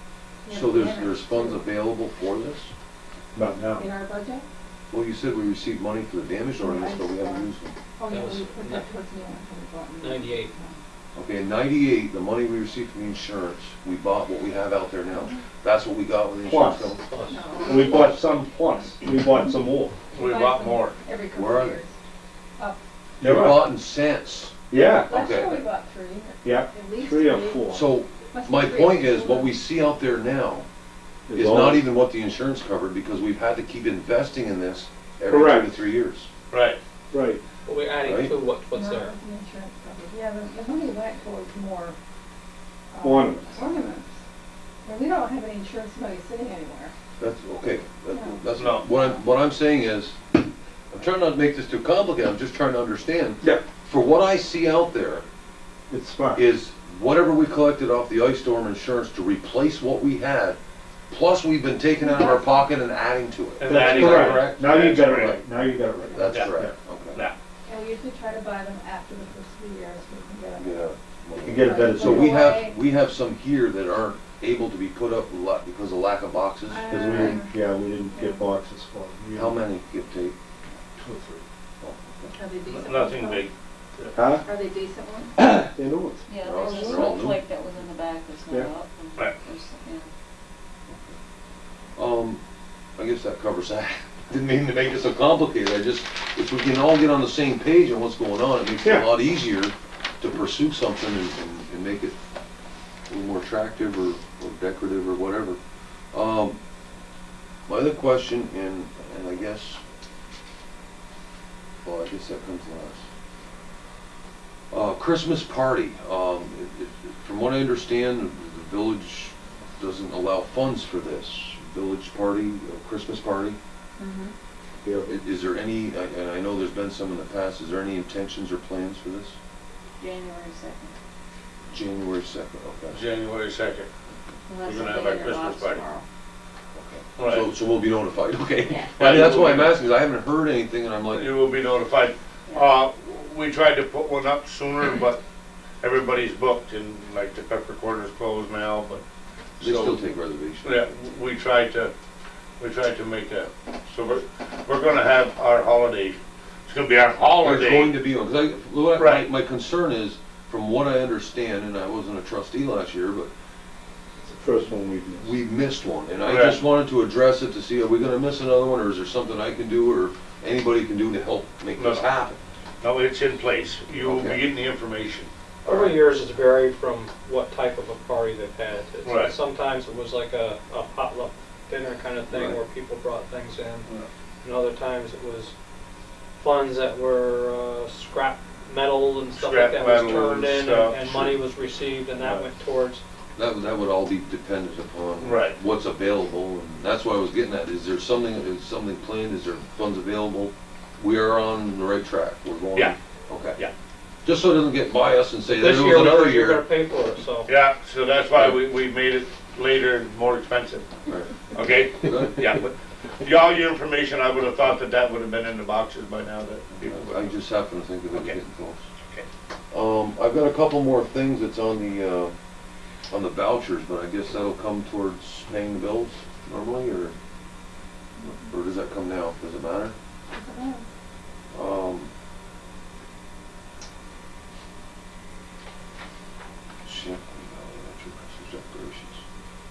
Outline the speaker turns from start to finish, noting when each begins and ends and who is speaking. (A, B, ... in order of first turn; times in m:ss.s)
0:00.4-0:01.6 A
0:00.5-0:02.7 B
0:03.3-0:03.9 C
0:03.8-0:04.4 A
0:04.9-0:07.8 B
0:06.6-0:10.8 A
0:08.1-0:08.8 D
0:10.0-0:10.5 D
0:11.1-0:17.0 B
0:16.4-0:16.9 C
0:17.1-0:17.4 D
0:17.3-0:18.1 A
0:17.6-0:19.9 C
0:20.1-0:21.0 E
0:20.2-0:21.9 A
0:21.3-0:21.8 B
0:23.2-0:23.7 C
0:23.2-0:24.5 B
0:24.7-0:25.2 C
0:24.8-0:27.8 A
0:25.1-0:25.6 B
0:26.4-0:27.8 C
0:27.7-0:30.7 B
0:28.3-0:29.5 A
0:31.3-0:31.9 C
0:31.3-0:36.3 B
0:35.2-0:35.7 C
0:36.5-0:36.8 E
0:37.1-0:37.4 C
0:37.6-0:39.1 D
0:38.0-0:38.3 B
0:38.7-0:42.0 A
0:42.9-0:44.2 A
0:43.0-0:43.7 C
0:44.8-0:46.9 A
0:47.2-0:50.4 B
0:48.1-0:48.4 A
0:48.5-0:48.9 E
0:50.9-0:55.2 B
0:55.9-0:56.5 C
0:56.3-1:00.6 B
1:01.1-1:04.9 B
1:02.0-1:02.7 A
1:03.6-1:04.5 D
1:03.6-1:06.7 C
1:03.6-1:05.4 E
1:06.1-1:07.2 B
1:07.6-1:10.7 A
1:10.6-1:17.4 B
1:11.4-1:12.6 C
1:11.5-1:12.8 A
1:16.7-1:17.6 A
1:16.9-1:19.6 C
1:18.1-1:18.4 A
1:19.3-1:20.4 B
1:21.0-1:21.4 C
1:21.8-1:22.3 B
1:22.3-1:23.5 A
1:22.7-1:24.2 E
1:24.1-1:24.5 C
1:24.4-1:25.5 A
1:25.4-1:27.0 C
1:26.3-1:30.1 F
1:26.4-1:27.5 B
1:30.9-1:31.2 B
1:32.0-1:32.4 B
1:33.0-1:42.1 B
1:38.8-1:39.1 C
1:43.1-1:45.6 B
1:46.1-1:46.6 B
1:47.7-1:49.8 B
1:51.8-1:53.0 B
1:54.7-2:03.6 B
2:04.0-2:04.3 F
2:04.8-2:05.2 C
2:05.1-2:09.4 B
2:10.0-2:10.9 F
2:11.7-2:13.0 B
2:12.9-2:13.9 E
2:14.4-2:16.0 F
2:14.6-2:15.8 E
2:16.7-2:21.4 B
2:17.2-2:17.5 E
2:18.6-2:19.0 F
2:18.9-2:19.8 E
2:21.1-2:25.2 E
2:22.5-2:22.7 F
2:25.8-2:29.0 E
2:29.6-2:30.0 E
2:29.6-2:30.9 B
2:30.6-2:31.9 E
2:32.6-2:38.0 E
2:37.4-2:43.3 B
2:39.0-2:39.2 E
2:44.3-2:45.3 C
2:45.2-2:52.4 B
2:46.2-2:46.6 E
2:51.8-2:52.1 E
2:52.8-2:55.9 E
2:54.0-2:54.4 B
2:55.6-3:03.8 D
2:59.0-2:59.3 E
3:04.4-3:05.5 D
3:06.4-3:13.0 D
3:09.3-3:11.4 E
3:12.2-3:12.4 E
3:13.4-3:23.6 B
3:15.2-3:15.6 E
3:24.2-3:26.6 B
3:25.6-3:27.5 D
3:27.4-3:30.9 E
3:31.1-3:31.4 B
3:31.5-3:37.3 E
3:32.0-3:32.4 B
3:36.8-3:38.8 B
3:38.1-3:38.4 E
3:39.7-3:42.3 B
3:43.1-3:47.2 B
3:48.2-3:49.9 B
3:50.3-3:50.8 A
3:51.5-3:52.1 B
3:56.8-3:59.2 B